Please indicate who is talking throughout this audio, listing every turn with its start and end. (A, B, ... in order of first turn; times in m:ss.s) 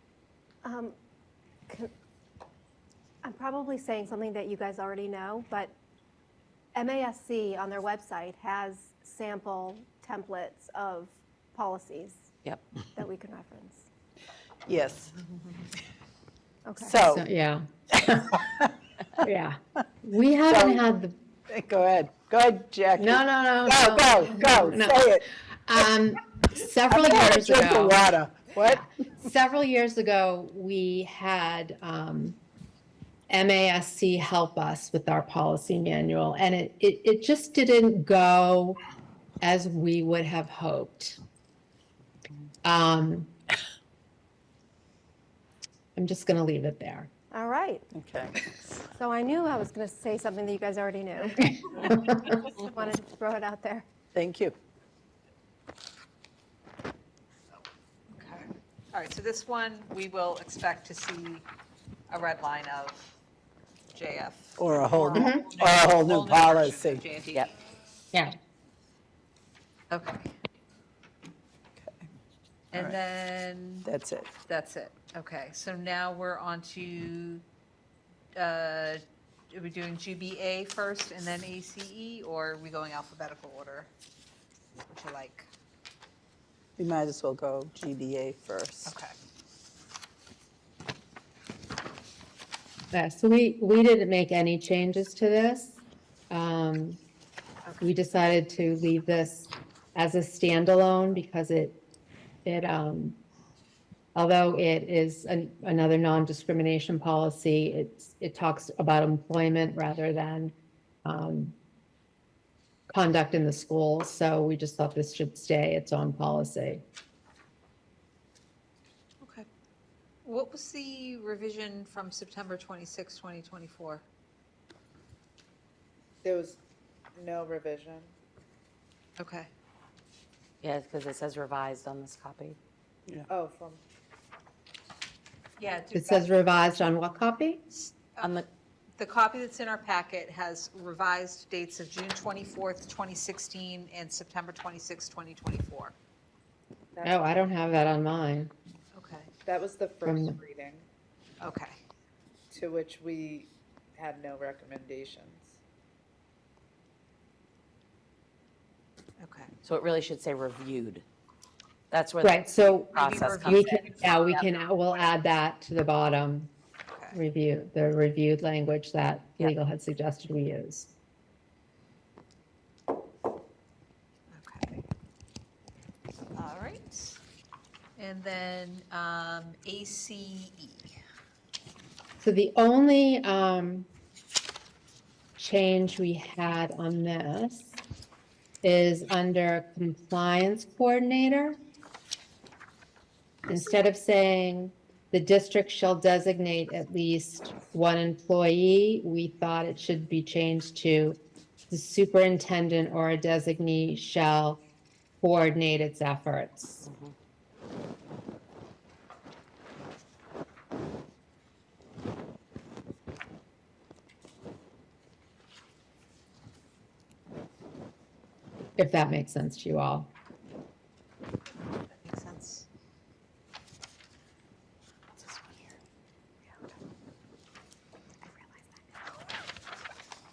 0:00.6-0:01.0 A
0:03.2-0:05.7 A
0:06.8-0:12.3 A
0:13.0-0:13.9 A
0:14.7-0:15.1 B
0:16.6-0:17.0 A
0:16.9-0:17.2 B
0:17.0-0:18.4 C
0:19.2-0:21.2 C
0:20.5-0:20.8 B
0:21.5-0:25.2 B
0:23.0-0:25.1 C
0:25.7-0:28.1 C
0:26.9-0:28.8 B
0:28.7-0:32.4 C
0:33.3-0:38.8 C
0:39.4-0:41.2 C
0:42.6-0:43.3 C
0:46.0-0:47.1 C
0:47.3-0:47.9 A
0:47.9-0:48.4 B
0:48.8-0:53.9 A
0:54.2-0:54.6 B
0:58.1-1:01.5 D
1:02.1-1:03.2 D
1:03.9-1:07.5 D
1:04.6-1:07.0 B
1:05.1-1:05.5 C
1:09.9-1:10.3 D
1:11.8-1:12.1 B
1:12.7-1:17.4 D
1:13.8-1:14.3 B
1:18.4-1:23.9 D
1:24.9-1:25.5 D
1:26.8-1:29.0 B
1:28.8-1:29.1 D
1:32.9-1:37.0 C
1:37.6-1:37.9 D
1:37.8-1:41.8 C
1:42.4-1:43.2 C
1:44.2-1:50.5 C
1:51.0-1:51.6 C
1:52.9-1:56.8 C
1:59.2-1:59.5 D
2:00.2-2:04.1 D
2:06.2-2:06.6 E
2:07.1-2:08.2 E
2:09.2-2:09.5 D
2:10.6-2:12.6 F
2:13.3-2:13.8 E
2:15.6-2:16.5 D
2:15.9-2:17.7 C
2:17.9-2:18.4 D
2:18.2-2:18.5 F
2:19.0-2:26.0 D
2:27.0-2:27.3 E
2:27.0-2:28.5 C
2:28.9-2:29.3 D
2:29.4-2:30.9 E
2:30.1-2:30.4 C
2:31.4-2:31.8 D
2:32.5-2:35.6 E
2:39.2-2:39.5 D
2:39.6-2:41.0 F
2:41.9-2:44.3 F
2:42.2-2:46.5 C
2:42.9-2:44.5 D
2:46.9-2:47.2 D
2:47.1-2:50.9 C
2:54.3-2:54.8 D
2:56.4-2:57.2 D
2:58.0-3:01.0 D
3:02.2-3:03.9 C
3:05.4-3:07.8 C
3:08.6-3:11.6 C
3:13.5-3:21.2 C
3:21.7-3:24.6 C
3:25.2-3:26.9 C
3:26.8-3:27.1 F
3:38.8-3:40.1 C
3:41.9-3:42.7 D